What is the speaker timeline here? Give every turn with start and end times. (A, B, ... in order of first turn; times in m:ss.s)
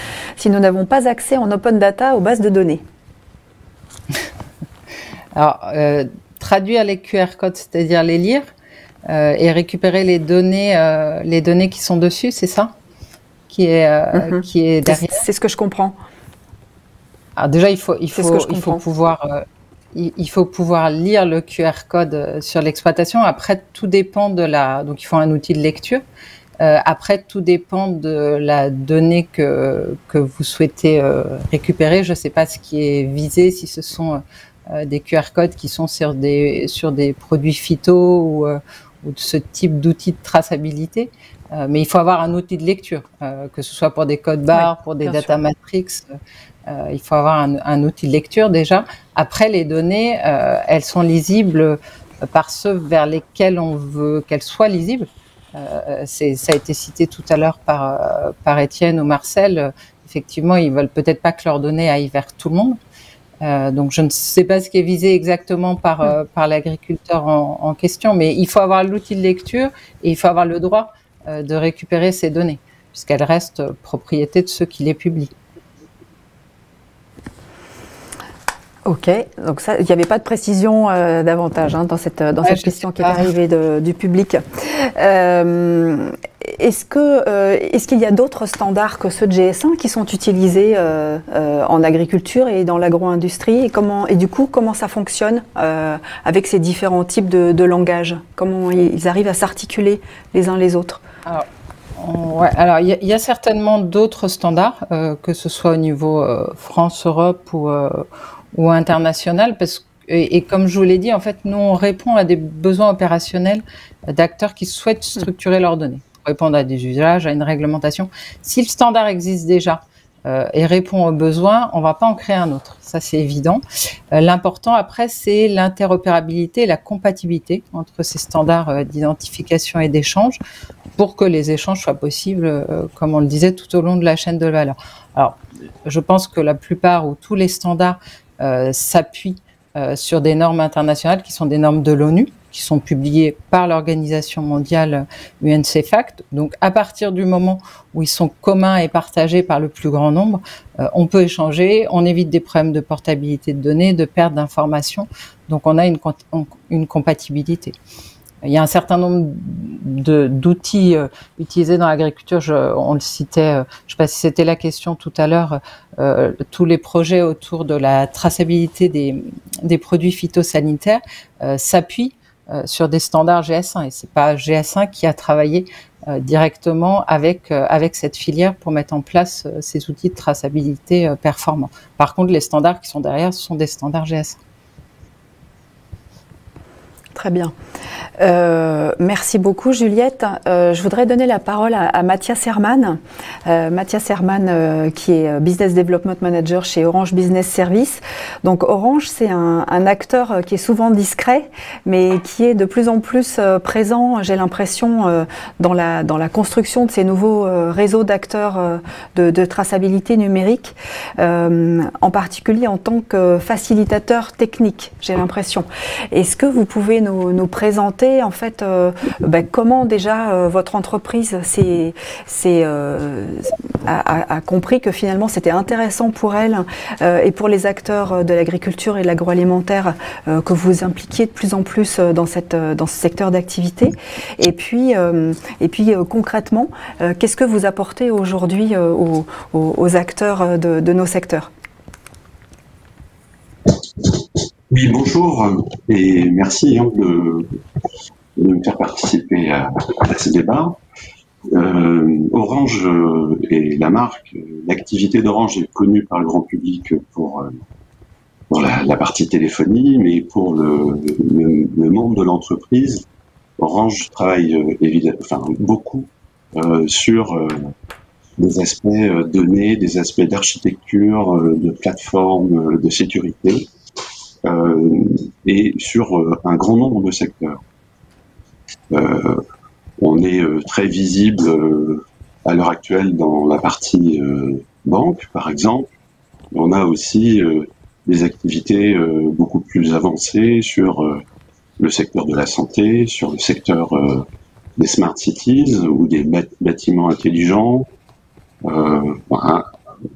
0:00.4-0:02.8 A
0:05.4-0:08.5 B
0:09.1-0:12.8 B
0:13.5-0:15.2 B
0:14.1-0:16.0 A
0:17.4-0:26.0 B
0:18.1-0:18.8 A
0:26.6-0:34.2 B
0:34.7-0:46.2 B
0:44.6-0:45.4 A
0:46.7-1:02.8 B
1:03.4-1:15.3 B
1:18.8-1:41.0 A
1:22.5-1:23.2 B
1:41.3-2:03.6 B
2:04.1-2:10.4 B
2:11.0-2:37.8 B
2:38.4-3:04.4 B
3:07.2-3:07.5 A
3:08.2-4:01.5 A
4:04.7-4:07.6 C
4:08.4-4:10.8 C
4:11.5-4:17.5 C
4:18.5-4:23.0 C
4:23.6-4:27.7 C
4:28.4-4:33.7 C
4:34.4-4:37.6 C
4:38.9-4:39.4 C
4:40.0-4:45.9 C
4:46.5-4:51.2 C
4:51.8-4:54.2 C
4:54.8-4:57.9 C
4:58.6-4:59.7 C